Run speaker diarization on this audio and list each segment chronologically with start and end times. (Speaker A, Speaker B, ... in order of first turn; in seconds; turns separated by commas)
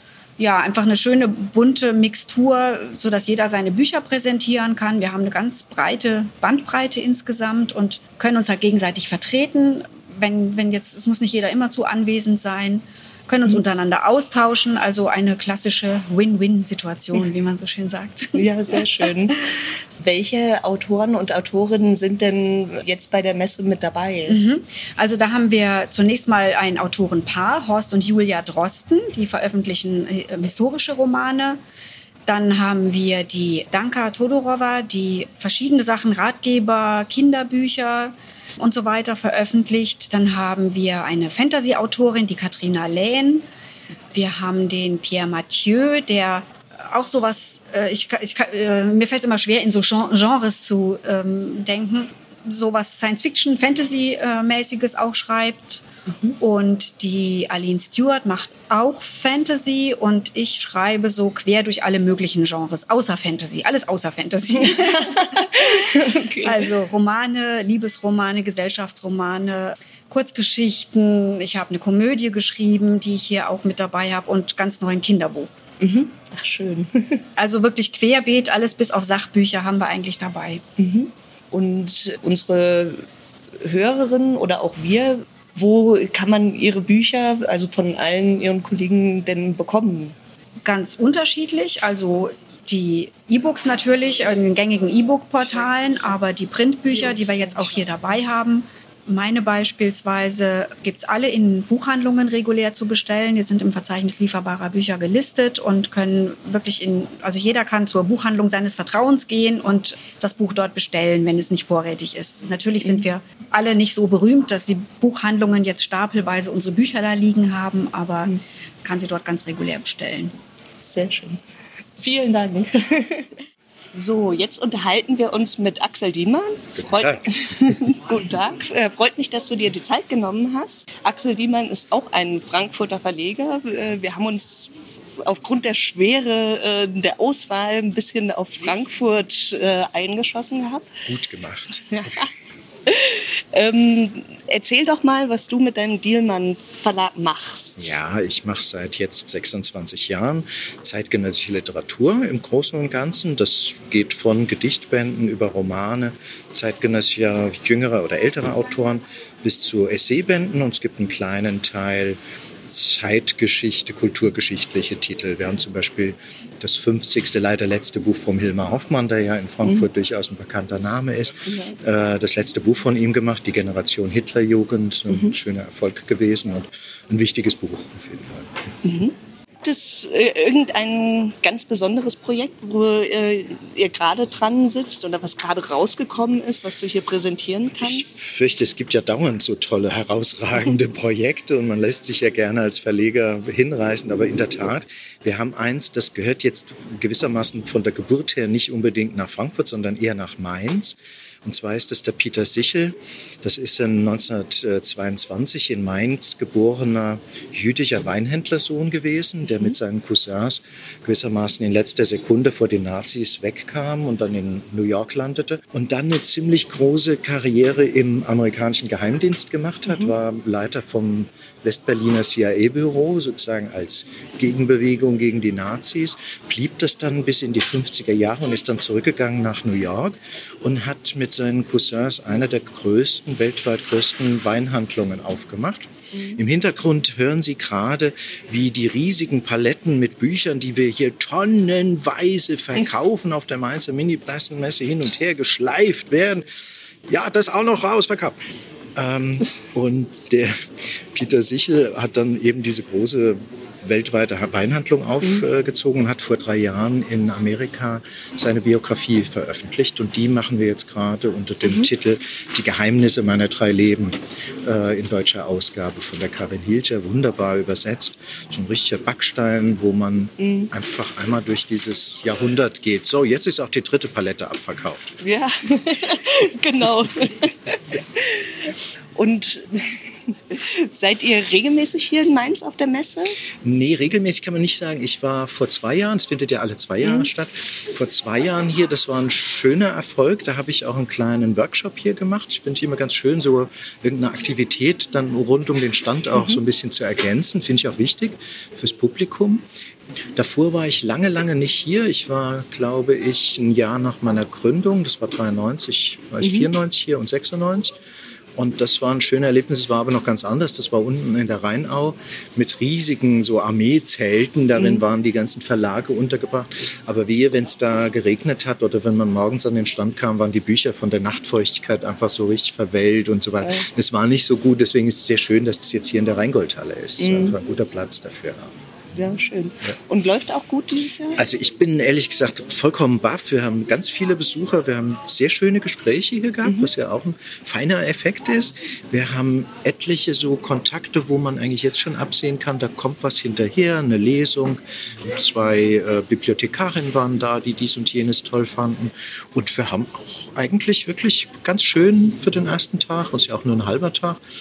Speaker A: 0.4-18.8, Speaker B: 18.3-19.4, Speaker B: 20.0-24.4, Speaker A: 24.3-31.6, Speaker A: 32.3-43.4, Speaker A: 44.1-55.8, Speaker B: 56.1-56.4, Speaker A: 56.4-75.6, Speaker B: 64.6-66.7, Speaker B: 75.8-77.2, Speaker A: 77.4-80.6, Speaker B: 80.8-83.0, Speaker B: 83.6-90.1, Speaker A: 90.6-118.3, Speaker A: 118.8-120.3, Speaker B: 120.8-121.4, Speaker B: 122.0-123.3, Speaker B: 123.9-140.9, Speaker C: 126.8-127.7, Speaker C: 141.0-142.3, Speaker B: 141.9-142.3, Speaker B: 142.9-148.0, Speaker C: 147.8-178.6, Speaker B: 171.5-171.8, Speaker B: 175.1-175.3, Speaker B: 178.8-188.1, Speaker C: 187.8-246.5, Speaker B: 219.9-220.1, Speaker B: 236.1-236.4, Speaker C: 247.1-248.4, Speaker C: 248.9-275.2, Speaker B: 261.6-261.9, Speaker B: 270.4-270.7, Speaker B: 275.2-283.4, Speaker C: 283.6-299.6, Speaker B: 287.0-287.3, Speaker B: 296.3-296.6, Speaker C: 300.4-307.9, Speaker B: 306.4-306.7, Speaker C: 308.6-328.7, Speaker B: 314.8-315.0, Speaker B: 327.2-327.5, Speaker B: 329.1-331.4, Speaker C: 331.4-354.4